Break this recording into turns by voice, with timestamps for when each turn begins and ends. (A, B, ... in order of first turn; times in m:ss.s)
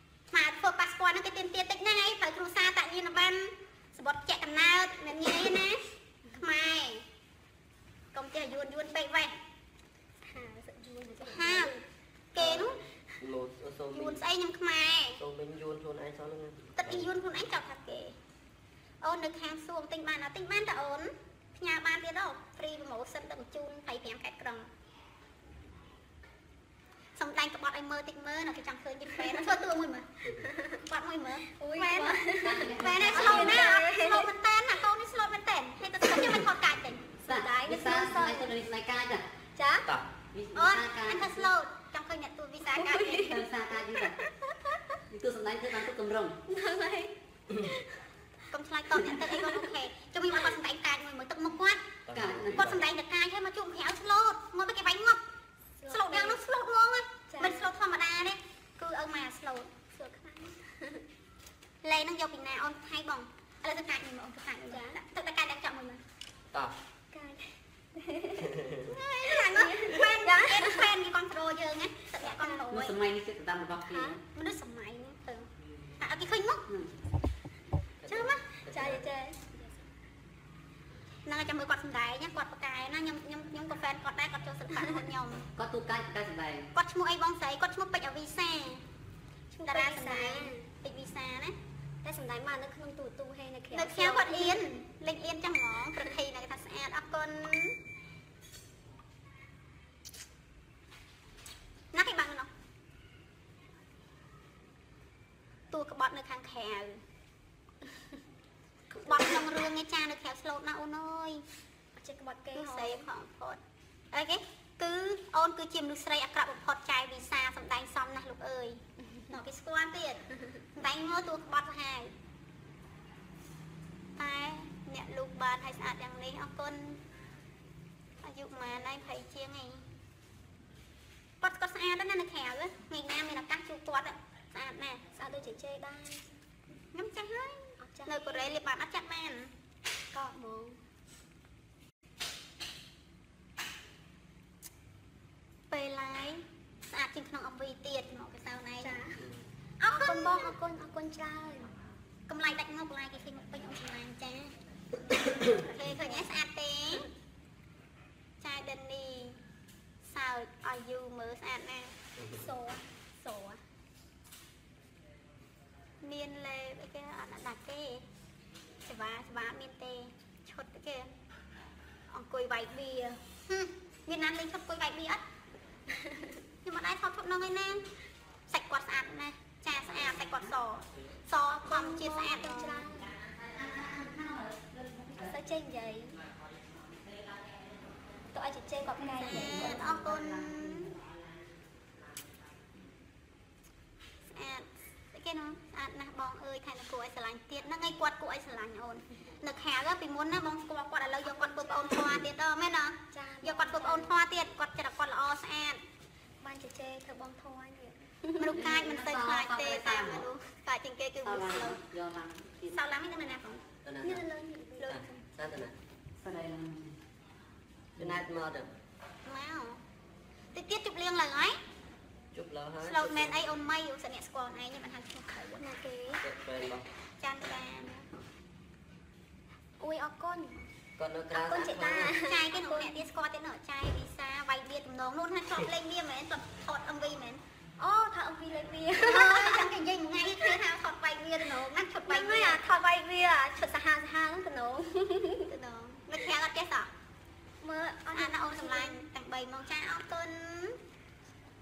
0:00.3-0:07.0 A
0:08.1-0:09.4 A
0:10.2-0:11.8 B
0:11.2-0:11.7 A
0:12.3-0:12.8 A
0:12.4-0:14.2 C
0:13.9-0:15.2 A
0:15.2-0:17.1 C
0:16.8-0:18.2 A
0:19.0-0:24.7 A
0:27.2-0:30.2 A
0:30.4-0:30.8 B
0:30.8-0:37.0 A
0:31.5-0:34.3 B
0:32.4-0:33.8 D
0:37.2-0:38.5 B
0:37.3-0:39.2 D
0:39.5-0:39.9 B
0:40.3-0:41.5 D
0:40.5-0:43.4 A
0:42.7-0:43.4 B
0:43.1-0:44.2 D
0:44.0-0:45.0 B
0:45.1-0:46.4 D
0:46.5-0:47.9 B
0:48.5-0:51.9 A
0:49.3-0:49.6 B
0:52.0-0:52.9 C
0:52.1-0:52.7 D
0:52.5-0:55.2 A
0:55.8-0:56.4 B
0:55.9-0:59.7 A
0:57.3-0:57.7 B
1:00.0-1:01.0 B
1:01.8-1:06.0 A
1:04.6-1:05.0 B
1:07.1-1:08.6 B
1:08.4-1:08.9 C
1:08.8-1:13.0 A
1:09.2-1:10.9 B
1:12.2-1:12.9 B
1:12.7-1:14.2 D
1:13.9-1:14.2 B
1:14.3-1:15.5 A
1:16.0-1:16.6 A
1:18.0-1:19.0 C
1:18.1-1:18.4 A
1:18.6-1:19.8 B
1:21.2-1:25.4 A
1:25.6-1:26.7 D
1:26.7-1:28.8 A
1:29.5-1:30.7 B
1:29.7-1:31.5 A
1:32.0-1:34.6 B
1:33.7-1:37.8 A
1:41.9-1:42.5 A
1:45.7-1:47.0 A
1:48.9-1:49.5 B
1:49.0-1:51.4 A
1:52.0-1:53.0 B
1:52.5-1:53.6 A
1:54.1-2:00.2 A
2:00.7-2:02.1 A
2:04.2-2:07.0 A
2:08.2-2:09.8 A
2:11.4-2:15.0 A
2:15.1-2:16.3 B
2:16.9-2:19.5 A
2:17.8-2:18.6 B
2:20.1-2:20.8 B
2:25.7-2:28.9 A
2:28.8-2:29.2 B
2:29.2-2:29.4 C
2:29.8-2:30.6 A
2:29.9-2:31.7 B
2:32.3-2:34.5 A
2:35.3-2:37.1 A
2:38.4-2:39.4 A
2:40.0-2:41.9 A
2:42.2-2:42.4 C
2:42.3-2:43.6 B
2:46.0-2:48.0 A
2:48.8-2:51.1 A
2:52.1-2:55.2 A
2:55.9-2:56.4 B
2:56.6-2:57.9 A
2:58.5-3:02.9 A
3:01.7-3:03.1 B
3:03.3-3:05.4 D
3:05.2-3:06.2 B
3:08.3-3:09.9 B
3:09.0-3:10.9 D
3:09.2-3:10.9 A
3:14.3-3:25.8 A
3:21.3-3:22.2 B
3:23.1-3:24.2 B
3:26.4-3:28.5 B
3:28.4-3:31.8 A
3:28.5-3:30.2 D
3:31.2-3:32.8 D
3:32.7-3:33.6 A
3:33.8-3:34.3 C
3:34.0-3:35.2 B
3:34.8-3:35.7 C
3:36.2-3:37.0 D
3:38.0-3:38.7 C
3:39.2-3:39.8 A
3:40.5-3:41.6 A
3:42.3-3:43.5 C
3:42.8-3:45.6 A
3:45.6-3:46.2 B
3:46.2-3:46.8 C
3:47.2-3:48.1 A
3:49.8-3:50.6 B
3:51.0-3:52.2 C
3:51.3-3:53.0 B
3:52.2-3:57.4 A
3:57.8-3:59.7 B
3:59.0-4:02.6 A
4:02.1-4:05.5 B
4:05.5-4:06.9 A
4:07.6-4:09.0 B
4:08.1-4:10.8 A